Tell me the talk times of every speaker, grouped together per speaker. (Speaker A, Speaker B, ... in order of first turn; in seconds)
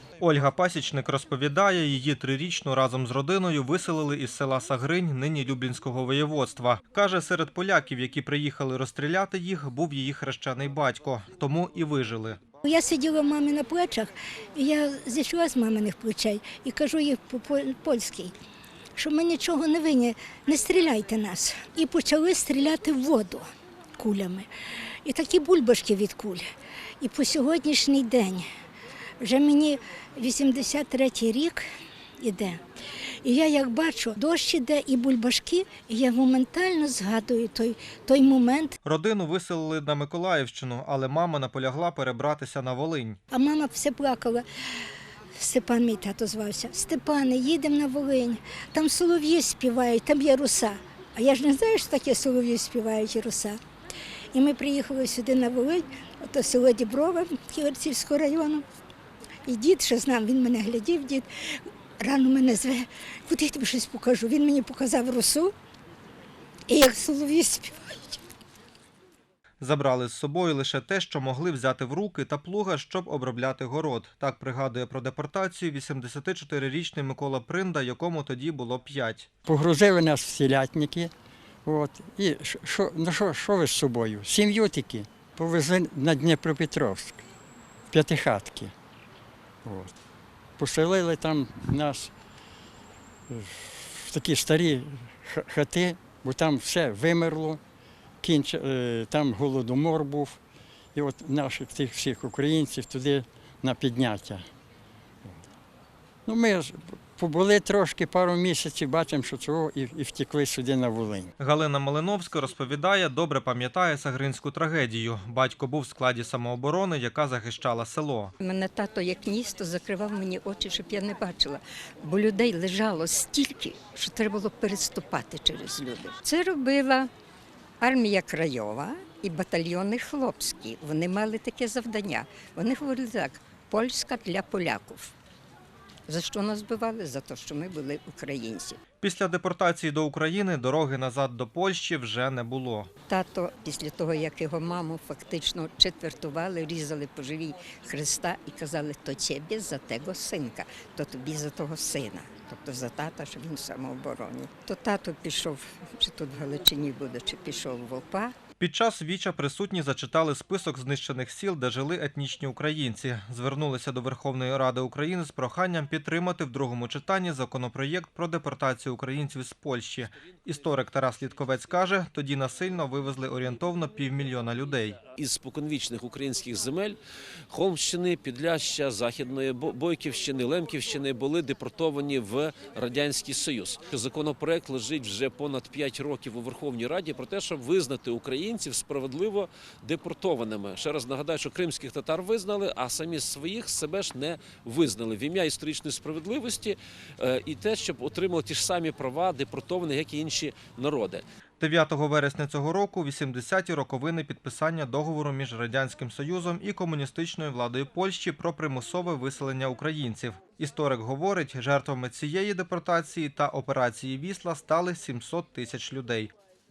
Speaker A: 0.2-12.4, 38.8-43.2, 69.6-79.3, 111.4-118.3, 139.0-142.9, 158.6-175.0, 201.6-216.3
Speaker B: 12.7-18.3, 19.0-24.5, 25.1-26.4, 27.0-28.4, 29.2-31.6, 32.2-32.6, 33.2-38.8, 43.3-44.5, 45.4-53.6, 54.3-58.6, 59.5-61.3, 62.0-65.5, 66.7-68.2
Speaker C: 79.5-81.1, 81.7-87.2, 87.9-88.7, 89.7-89.9, 90.6-92.1, 93.3-97.6, 98.2-100.4, 101.0-104.5, 106.3-111.3
Speaker D: 118.4-127.1, 127.8-135.1, 136.1-138.8, 143.1-158.3
Speaker E: 175.2-177.0, 177.5-201.2